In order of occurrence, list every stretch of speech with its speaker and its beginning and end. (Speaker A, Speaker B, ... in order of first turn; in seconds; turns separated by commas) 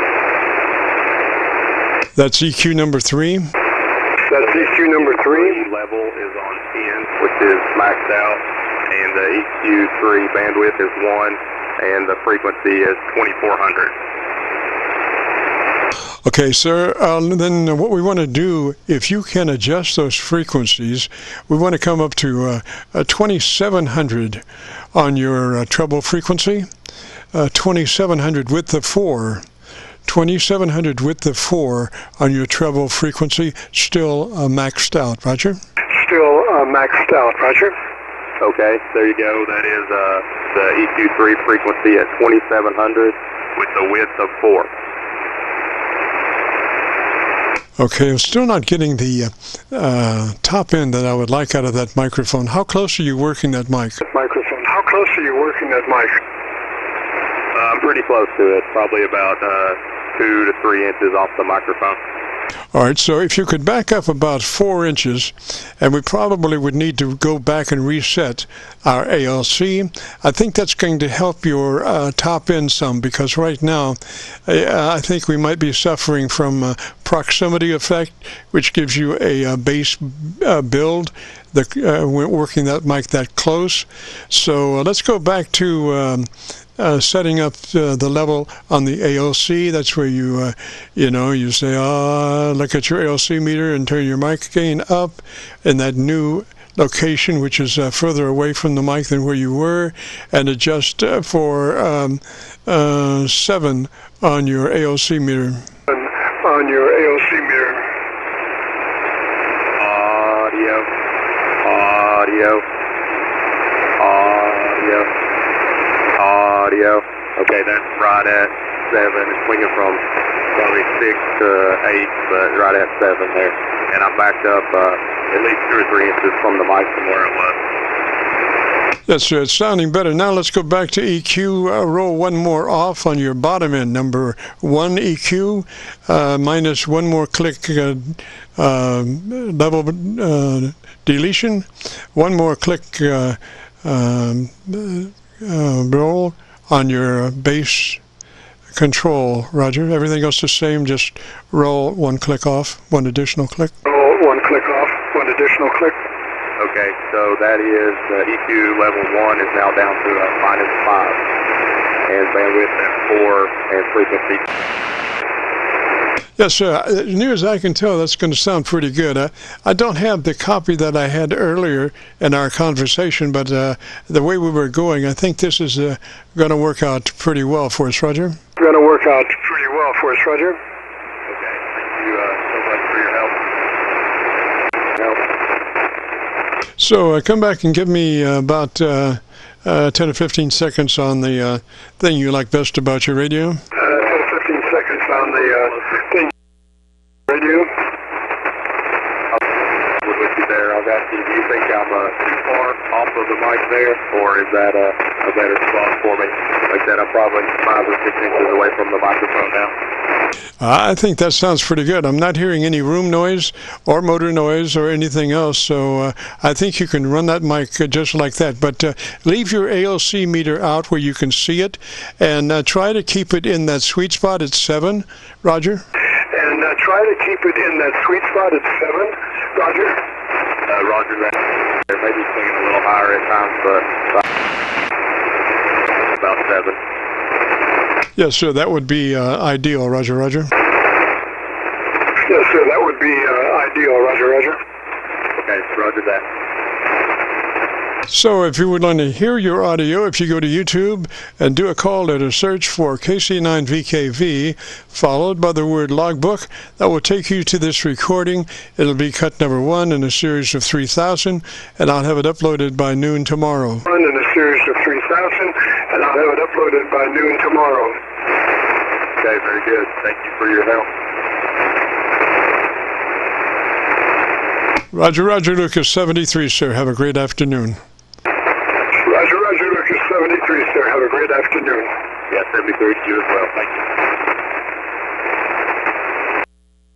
Speaker A: 2.1-3.5, Speaker B: 4.2-5.6, Speaker C: 4.3-13.9, Speaker A: 16.2-26.7, Speaker A: 27.3-29.4, Speaker A: 30.1-35.6, Speaker B: 35.9-37.7, Speaker C: 38.4-44.7, Speaker A: 47.8-54.0, Speaker B: 54.0-56.2, Speaker C: 57.5-62.0, Speaker A: 62.7-105.6, Speaker B: 105.9-107.9, Speaker C: 109.8-110.9, Speaker C: 111.6-112.6, Speaker C: 114.0-115.1, Speaker C: 116.2-127.6, Speaker A: 129.1-148.0, Speaker A: 148.7-153.7, Speaker B: 153.8-155.9, Speaker C: 156.6-161.2, Speaker C: 162.1-164.5, Speaker A: 166.4-178.4, Speaker B: 178.6-180.6, Speaker C: 181.3-183.3, Speaker C: 184.9-185.2, Speaker A: 186.8-193.6, Speaker B: 193.8-196.3, Speaker C: 195.1-196.0, Speaker B: 197.3-197.8, Speaker C: 200.0-209.7, Speaker A: 210.6-225.8, Speaker B: 226.3-230.0, Speaker C: 230.7-231.4, Speaker C: 231.9-234.2, Speaker C: 236.1-236.8, Speaker A: 238.2-240.5, Speaker B: 242.2-244.6, Speaker C: 245.3-246.2, Speaker A: 248.1-263.8, Speaker B: 263.9-268.0, Speaker C: 269.2-270.9, Speaker A: 274.9-277.8, Speaker B: 278.9-281.9, Speaker C: 282.3-283.7